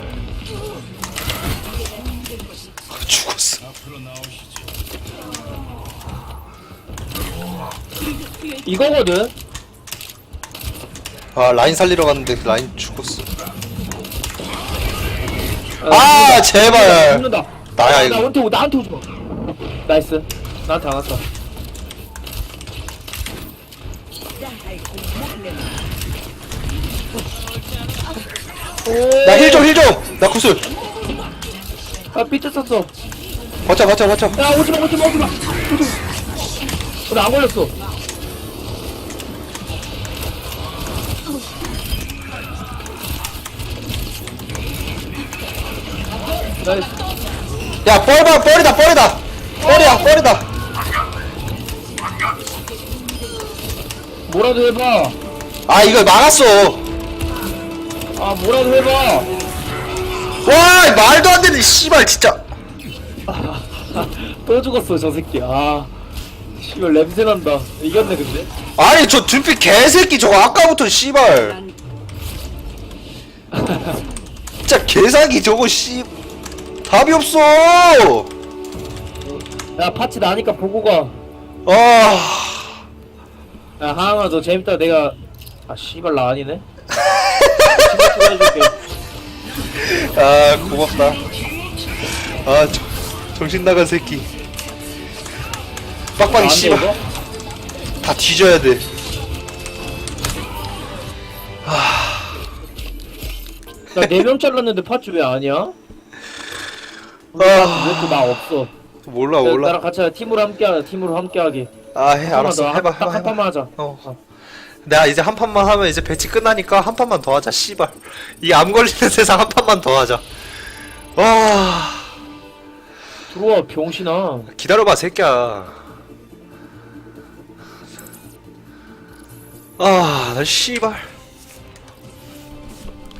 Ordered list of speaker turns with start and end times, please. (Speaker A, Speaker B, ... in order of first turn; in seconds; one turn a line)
Speaker A: 1.8-2.7
Speaker B: 2.9-3.6
Speaker A: 8.1-8.6
Speaker C: 8.6-9.3
Speaker B: 11.3-13.2
Speaker C: 15.8-19.0
Speaker B: 15.9-17.2
Speaker B: 17.8-18.3
Speaker C: 19.9-21.2
Speaker A: 24.4-25.8
Speaker C: 28.8-29.7
Speaker B: 29.2-30.6
Speaker C: 32.1-32.9
Speaker B: 33.6-34.4
Speaker C: 34.3-36.0
Speaker C: 37.1-37.7
Speaker A: 46.4-47.3
Speaker C: 46.6-47.0
Speaker B: 47.8-50.5
Speaker C: 49.7-50.0
Speaker A: 52.2-53.5
Speaker C: 54.3-55.1
Speaker B: 55.7-56.8
Speaker C: 58.1-59.3
Speaker B: 60.4-62.4
Speaker C: 63.3-65.9
Speaker C: 66.6-68.5
Speaker B: 68.8-71.6
Speaker A: 71.3-71.8
Speaker C: 73.5-74.0
Speaker B: 74.7-76.1
Speaker B: 76.8-78.3
Speaker C: 79.8-81.2
Speaker B: 81.7-82.8
Speaker C: 83.8-85.2
Speaker C: 85.7-86.6
Speaker B: 87.0-88.0
Speaker C: 87.7-88.7
Speaker B: 89.7-91.2
Speaker B: 92.1-94.3
Speaker B: 96.2-97.0
Speaker C: 96.2-97.0
Speaker B: 98.0-98.8
Speaker B: 101.6-102.3
Speaker C: 103.9-105.7
Speaker C: 107.3-108.7
Speaker B: 107.4-108.4
Speaker B: 109.0-109.8
Speaker C: 109.4-111.7
Speaker B: 111.9-114.0
Speaker C: 112.2-114.2
Speaker B: 114.8-120.2
Speaker B: 121.2-122.1
Speaker C: 123.3-124.5
Speaker B: 124.5-125.8
Speaker B: 129.8-131.1